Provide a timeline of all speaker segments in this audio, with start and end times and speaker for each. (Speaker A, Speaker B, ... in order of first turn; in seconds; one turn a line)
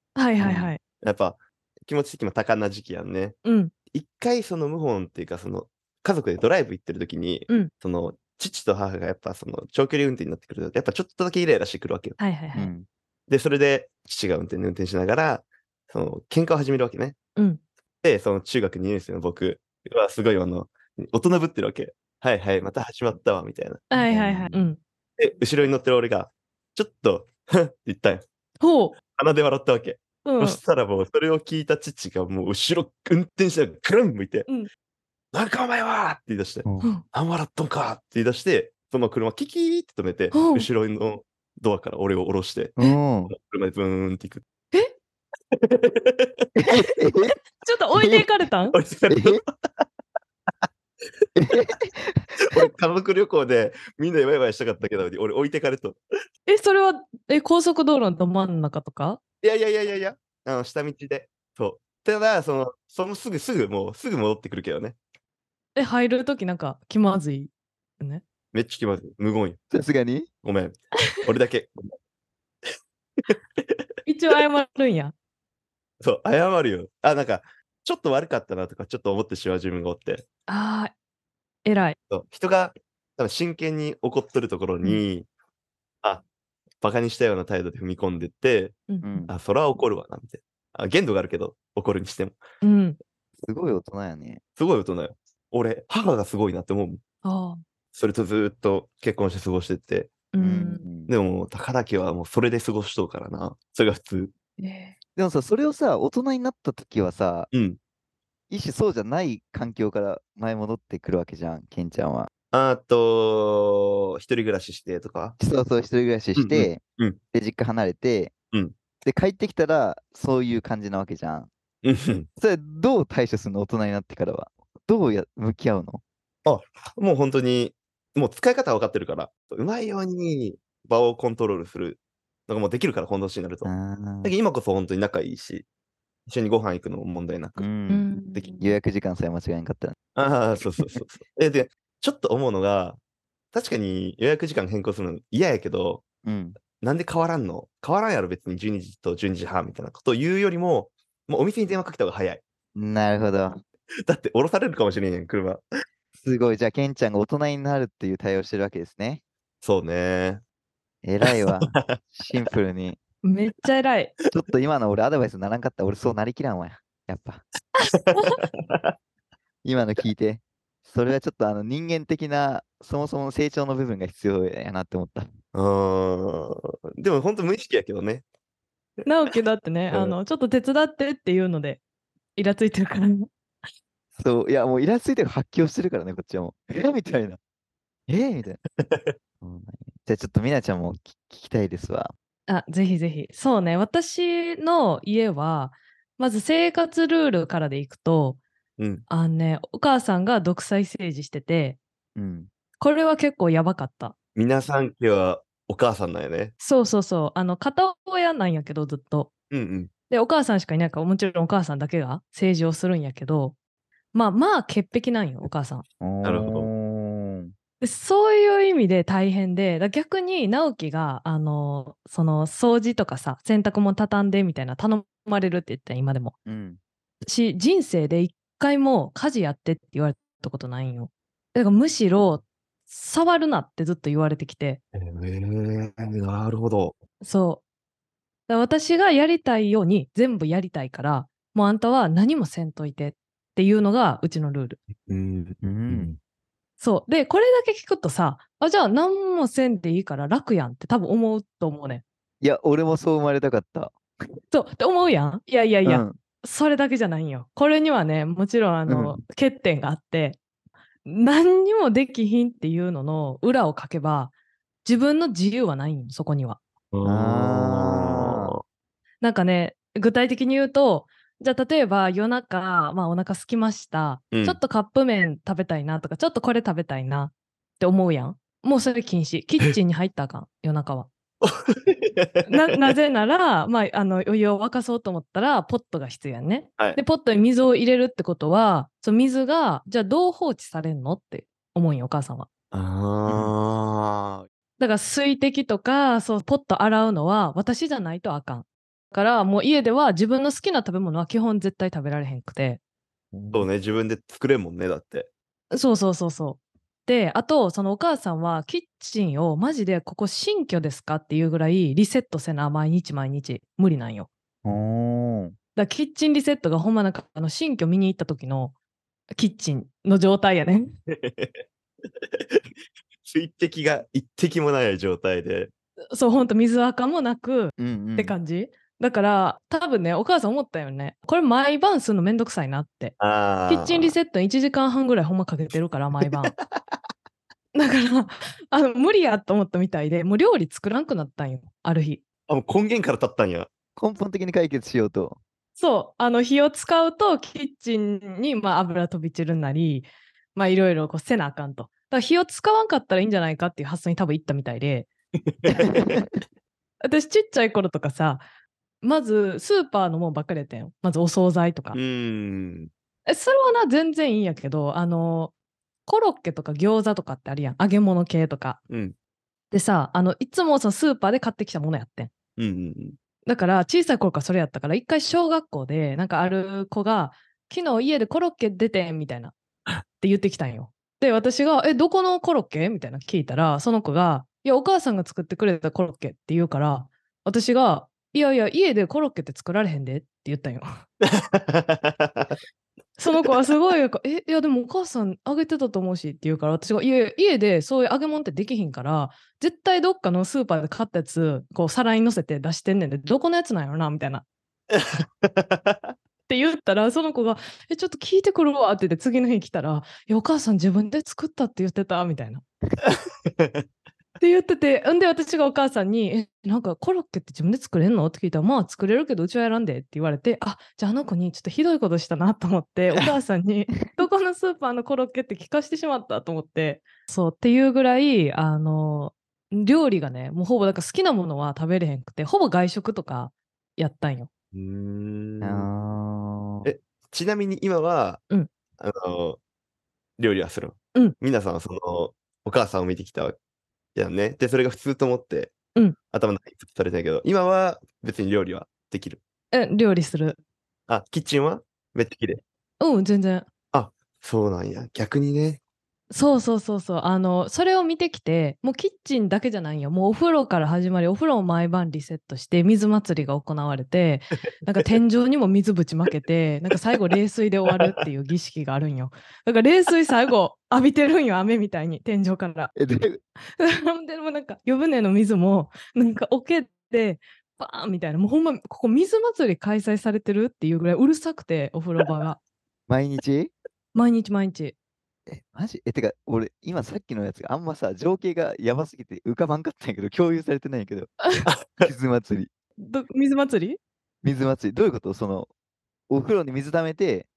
Speaker A: 0.1-0.8
Speaker B: 0.4-3.4
Speaker A: 3.4-3.7
Speaker B: 3.9-12.2
Speaker A: 12.2-12.7
Speaker C: 12.5-12.8
Speaker B: 13.3-17.2
Speaker A: 17.4-17.6
Speaker B: 18.0-23.9
Speaker A: 23.9-24.8
Speaker C: 24.0-24.6
Speaker B: 25.2-28.2
Speaker A: 28.6-28.9
Speaker B: 29.1-34.5
Speaker A: 30.2-30.6
Speaker B: 35.3-42.8
Speaker A: 40.3-40.7
Speaker C: 42.8-43.3
Speaker B: 43.3-44.4
Speaker B: 45.5-46.5
Speaker C: 46.6-47.3
Speaker A: 47.6-48.8
Speaker C: 48.0-48.2
Speaker B: 48.7-49.5
Speaker C: 49.1-49.4
Speaker C: 51.4-52.7
Speaker B: 52.4-56.0
Speaker A: 56.5-59.2
Speaker B: 59.4-65.0
Speaker A: 65.8-68.2
Speaker B: 68.5-69.6
Speaker C: 69.7-70.3
Speaker B: 70.4-71.9
Speaker B: 73.2-73.8
Speaker A: 74.0-75.1
Speaker B: 76.0-80.2
Speaker A: 80.5-80.9
Speaker A: 81.6-82.0
Speaker B: 82.1-85.3
Speaker B: 86.8-92.4
Speaker A: 88.9-89.3
Speaker C: 89.0-89.3
Speaker A: 92.6-93.0
Speaker C: 93.4-94.4
Speaker B: 94.6-97.0
Speaker A: 97.2-97.6
Speaker B: 97.9-100.1
Speaker A: 100.3-100.8
Speaker C: 100.4-101.1
Speaker B: 101.1-104.3
Speaker A: 104.6-104.9
Speaker C: 105.2-107.5
Speaker B: 107.5-107.8
Speaker C: 108.5-112.3
Speaker B: 112.5-115.4
Speaker C: 115.4-116.8
Speaker B: 116.3-117.2
Speaker C: 117.3-118.3
Speaker C: 119.0-121.5
Speaker B: 121.8-122.3
Speaker C: 122.4-126.0
Speaker B: 126.4-133.7
Speaker C: 133.6-134.3
Speaker B: 134.2-135.6
Speaker B: 136.3-137.7
Speaker C: 137.6-140.0
Speaker A: 137.9-138.8
Speaker B: 140.2-143.0
Speaker B: 143.5-146.0
Speaker C: 146.2-146.6
Speaker B: 146.8-152.4
Speaker C: 152.8-153.6
Speaker B: 154.1-155.6
Speaker C: 156.2-159.2
Speaker B: 159.6-160.4
Speaker C: 161.0-163.0
Speaker B: 161.2-162.0
Speaker A: 163.2-164.1
Speaker C: 164.3-167.4
Speaker B: 167.9-168.9
Speaker C: 169.6-175.3
Speaker B: 175.5-178.2
Speaker A: 179.0-181.8
Speaker B: 179.9-180.2
Speaker A: 182.3-183.3
Speaker C: 184.2-187.4
Speaker C: 188.1-188.6
Speaker B: 188.8-189.1
Speaker C: 189.4-192.1
Speaker A: 192.5-198.4
Speaker B: 198.8-199.0
Speaker A: 199.1-201.8
Speaker C: 202.2-202.5
Speaker A: 202.8-204.1
Speaker B: 204.3-206.5
Speaker A: 206.6-209.3
Speaker B: 209.5-209.9
Speaker A: 210.1-213.6
Speaker A: 214.1-215.8
Speaker C: 216.0-217.5
Speaker B: 216.2-216.7
Speaker A: 217.8-226.3
Speaker C: 226.4-226.8
Speaker A: 227.2-234.8
Speaker B: 234.9-237.0
Speaker A: 237.2-237.6
Speaker A: 238.5-244.8
Speaker B: 245.0-246.2
Speaker C: 245.6-246.1
Speaker A: 246.8-252.0
Speaker C: 252.4-253.9
Speaker A: 254.5-260.4
Speaker C: 255.8-256.2
Speaker C: 258.9-259.2
Speaker A: 261.0-264.3
Speaker A: 264.8-266.6
Speaker B: 266.9-268.6
Speaker C: 267.0-268.5
Speaker A: 269.2-281.1
Speaker B: 274.3-274.6
Speaker B: 281.4-282.9
Speaker A: 282.5-292.5
Speaker B: 292.7-294.4
Speaker C: 293.3-293.5
Speaker A: 294.8-302.8
Speaker C: 303.3-303.7
Speaker B: 303.5-305.3
Speaker A: 305.7-314.3
Speaker C: 314.6-315.5
Speaker A: 315.8-318.7
Speaker A: 319.4-320.9
Speaker B: 321.1-321.6
Speaker B: 322.2-322.6
Speaker B: 323.2-325.7
Speaker A: 326.1-333.1
Speaker C: 327.8-328.4
Speaker B: 333.2-334.1
Speaker A: 333.7-336.5
Speaker B: 336.2-336.8
Speaker A: 337.7-342.2
Speaker B: 342.5-343.7
Speaker C: 343.9-345.4
Speaker A: 345.8-355.1
Speaker B: 355.5-355.9
Speaker C: 355.7-356.3
Speaker A: 357.0-358.4
Speaker A: 359.0-362.0
Speaker B: 361.9-362.9
Speaker A: 363.2-365.5
Speaker A: 366.1-368.8
Speaker B: 368.9-369.1
Speaker A: 369.7-372.3
Speaker B: 372.6-373.2
Speaker A: 373.4-379.5
Speaker A: 380.2-391.0
Speaker B: 391.2-392.6
Speaker A: 393.2-404.4
Speaker B: 404.9-406.1
Speaker A: 406.5-412.6
Speaker B: 413.0-413.8
Speaker A: 414.4-434.5
Speaker B: 434.7-435.9
Speaker C: 435.6-436.9
Speaker B: 436.8-438.4
Speaker B: 439.0-439.6
Speaker B: 440.4-443.6
Speaker B: 444.1-445.7
Speaker B: 446.3-449.4
Speaker A: 449.7-450.6
Speaker B: 451.1-452.6
Speaker A: 453.0-453.7
Speaker B: 453.9-455.8
Speaker A: 456.3-472.9
Speaker C: 472.9-473.4
Speaker A: 473.8-482.6
Speaker C: 483.1-483.7
Speaker A: 484.1-484.9
Speaker C: 485.5-491.3
Speaker B: 491.7-492.1
Speaker C: 492.0-492.7
Speaker A: 493.0-494.0
Speaker C: 494.4-495.7
Speaker C: 496.3-497.5